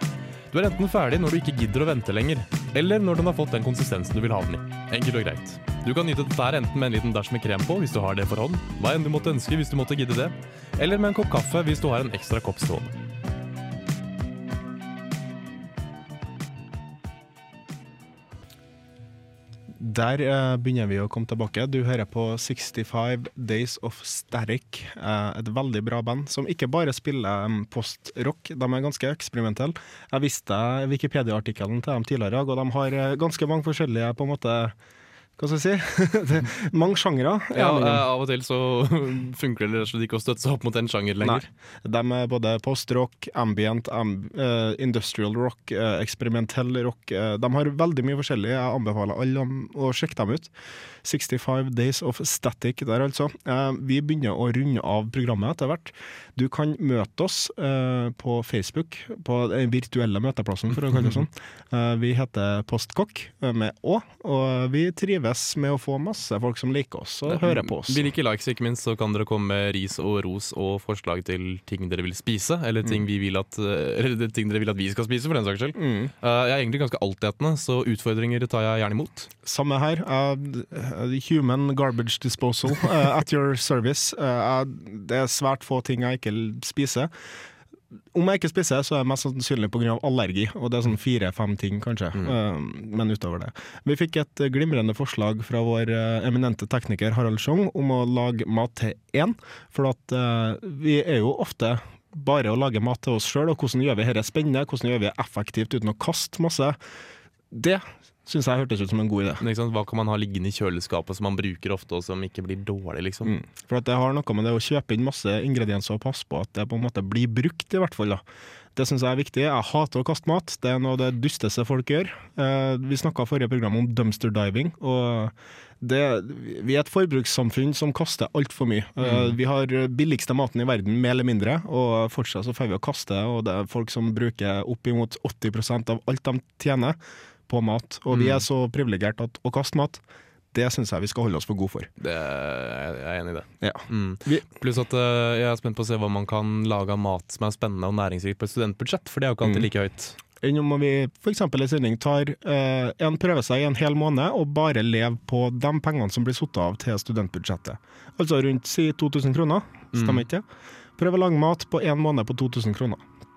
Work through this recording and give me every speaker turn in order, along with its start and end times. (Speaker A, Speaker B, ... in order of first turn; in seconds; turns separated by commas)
Speaker A: 0.5-12.9, Speaker B: 19.8-34.8, Speaker B: 35.4-38.1, Speaker A: 37.5-41.5, Speaker B: 41.2-50.5, Speaker B: 51.0-68.1, Speaker A: 67.3-79.3, Speaker B: 75.8-76.1, Speaker B: 79.4-87.1, Speaker B: 88.1-106.8, Speaker B: 107.5-109.4, Speaker A: 109.4-113.3, Speaker B: 113.2-118.2, Speaker B: 118.8-140.0, Speaker A: 129.0-129.4, Speaker A: 138.1-138.4, Speaker B: 140.5-141.9, Speaker A: 142.0-150.2, Speaker B: 143.6-144.4, Speaker B: 149.4-149.7, Speaker B: 150.4-160.4, Speaker A: 159.9-160.3, Speaker B: 161.0-163.0